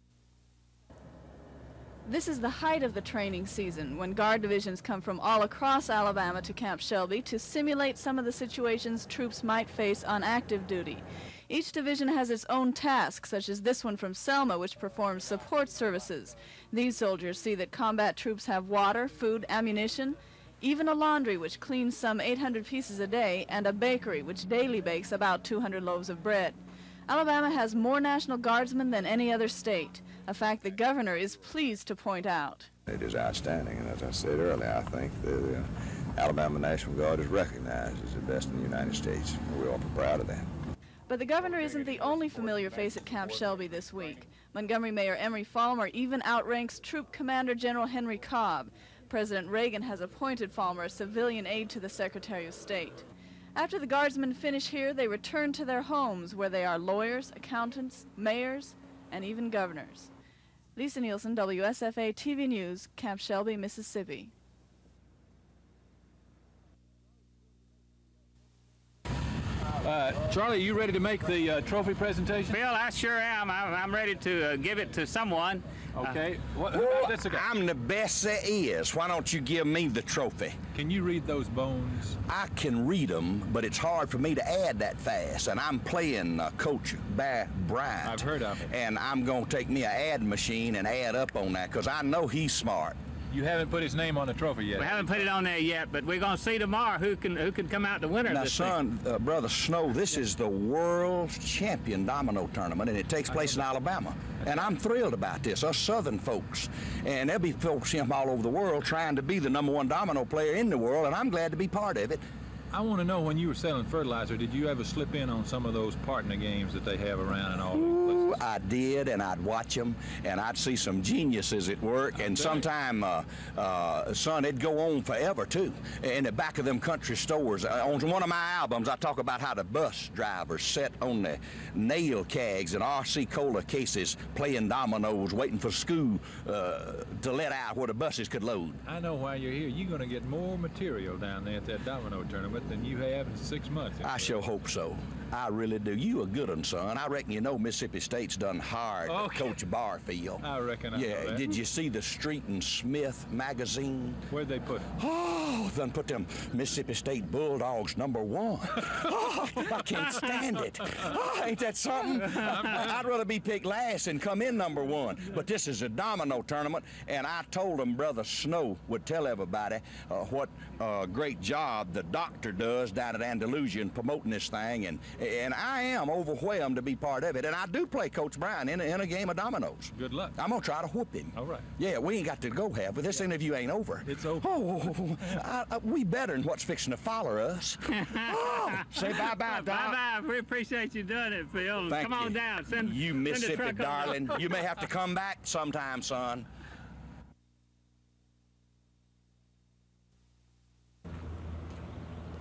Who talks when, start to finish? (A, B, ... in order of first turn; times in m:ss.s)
0:02.1-0:32.7 A
0:32.9-0:40.5 B
0:41.1-0:53.0 A
0:53.6-1:00.1 A
1:00.8-1:04.3 A
1:09.8-1:12.6 C
1:12.5-1:16.2 D
1:15.9-1:17.4 C
1:16.7-1:20.6 E
1:20.7-1:22.2 C
1:22.3-1:33.0 E
1:28.0-1:28.7 C
1:33.3-1:35.3 C
1:34.8-1:38.8 D
1:38.3-1:52.2 E
1:43.3-1:43.7 C
1:44.4-1:44.7 C
1:52.7-1:58.4 C
1:57.7-2:18.8 E
2:02.2-2:02.7 C
2:18.8-2:24.4 C
2:24.0-2:34.2 E
2:29.1-2:29.6 C
2:30.4-2:31.6 C
2:34.3-2:34.9 C
2:35.0-3:10.0 E
2:42.3-2:42.9 C
3:00.0-3:00.4 C
3:01.3-3:01.7 C
3:03.1-3:03.4 C
3:04.1-3:04.5 C
3:07.9-3:14.5 D
3:11.8-3:16.5 E